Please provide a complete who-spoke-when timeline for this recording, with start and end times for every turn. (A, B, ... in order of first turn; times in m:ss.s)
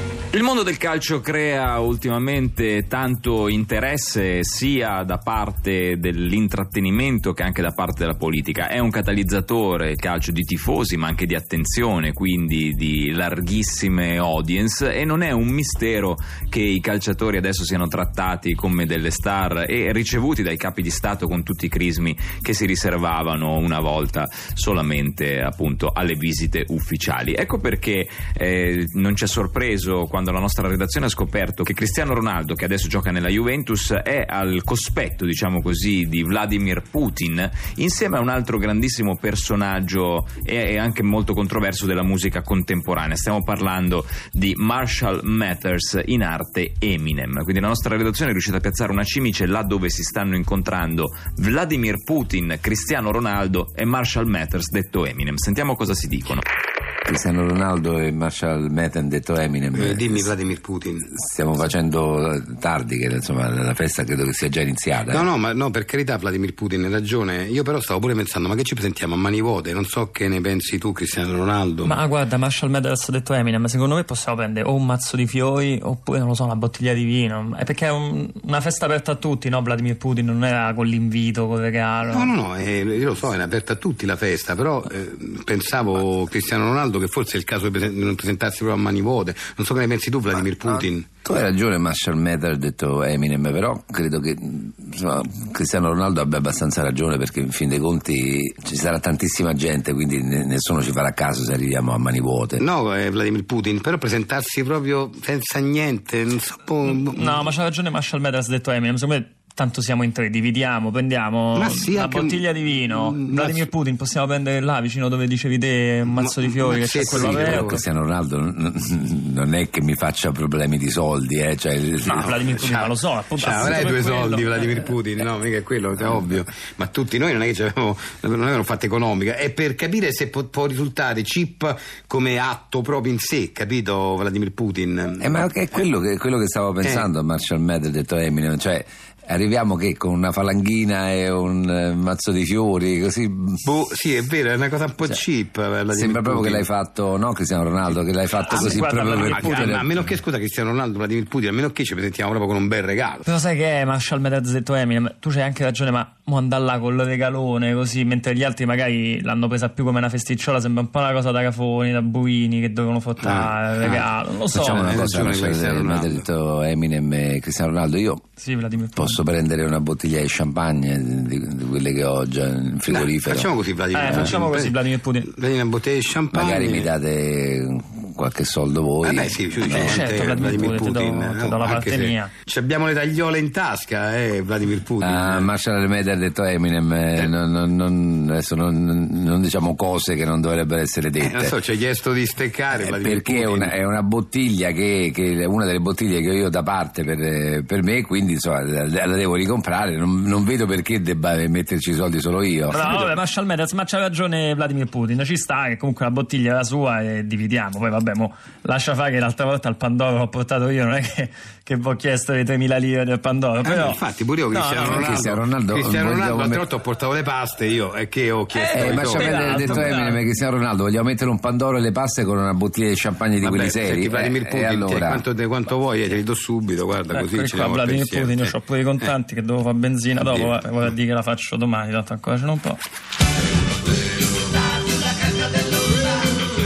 0:00.3-0:56.4 A
0:57.0-1:00.3 B
0:59.7-1:01.1 C
1:01.1-1:05.3 B
1:05.1-1:12.0 C
1:11.8-1:22.3 D
1:22.1-1:31.0 C
1:30.7-1:42.6 B
1:42.6-1:47.4 C
1:46.9-1:57.8 D
1:51.5-1:52.4 C
1:53.1-1:53.6 C
1:56.2-1:57.8 C
1:57.1-2:02.5 B
2:02.0-2:04.9 D
2:02.5-2:15.4 C
2:15.2-2:23.6 B
2:16.8-2:17.1 C
2:23.6-2:26.7 C
2:25.9-2:30.1 B
2:28.5-2:29.8 D
2:28.6-2:33.2 C
2:33.2-2:44.9 D
2:43.2-2:44.0 C
2:44.5-2:48.2 B
2:44.7-2:46.2 C
2:48.4-2:49.2 D
2:48.9-2:54.4 B
2:52.9-2:54.8 C
2:53.9-2:55.3 D
2:55.3-2:56.9 C
2:56.3-3:00.1 B
2:59.0-3:05.5 C
2:59.6-3:02.3 D
3:05.0-3:11.6 B
3:11.2-3:13.8 C
3:12.7-3:23.1 B
3:22.7-3:35.0 D
3:33.6-3:40.0 C
3:34.8-3:36.6 B
3:38.5-3:40.2 D
3:38.7-3:45.2 B
3:43.4-3:49.1 C
3:47.1-3:52.8 D
3:50.2-3:50.6 C